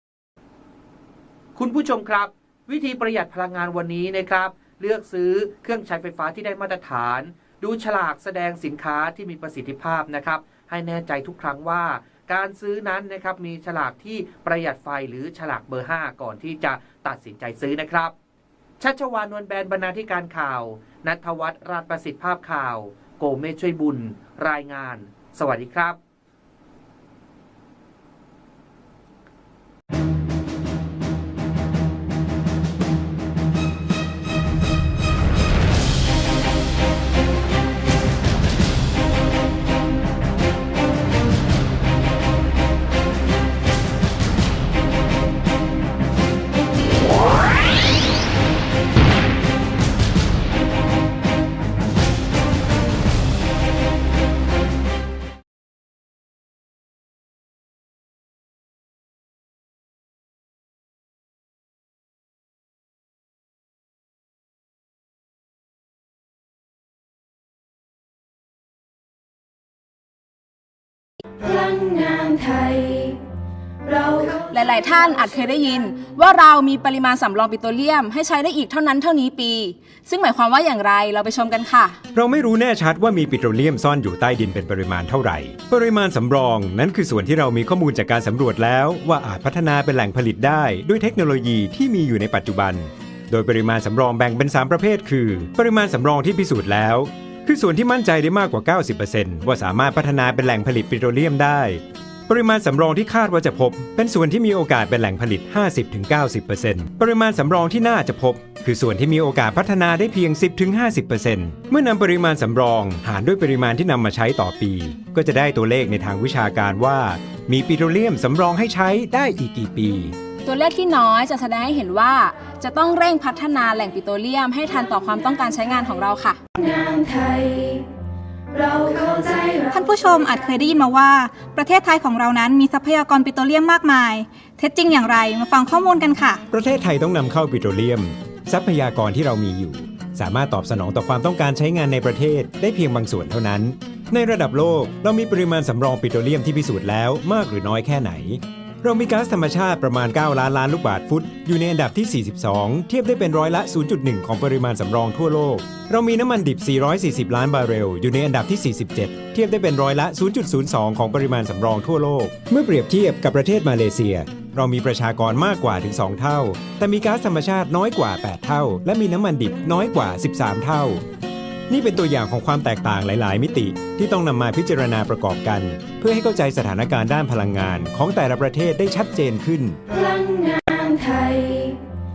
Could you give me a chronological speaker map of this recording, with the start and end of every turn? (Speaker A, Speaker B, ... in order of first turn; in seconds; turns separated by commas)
Speaker A: 1.6-18.1, Speaker A: 18.8-26.0, Speaker B: 71.4-73.2, Speaker B: 73.9-74.3, Speaker C: 74.2-82.0, Speaker D: 82.1-120.2, Speaker C: 120.5-126.4, Speaker B: 126.6-127.8, Speaker B: 128.5-129.8, Speaker E: 129.7-136.4, Speaker D: 136.5-171.0, Speaker D: 171.7-179.8, Speaker B: 179.9-181.8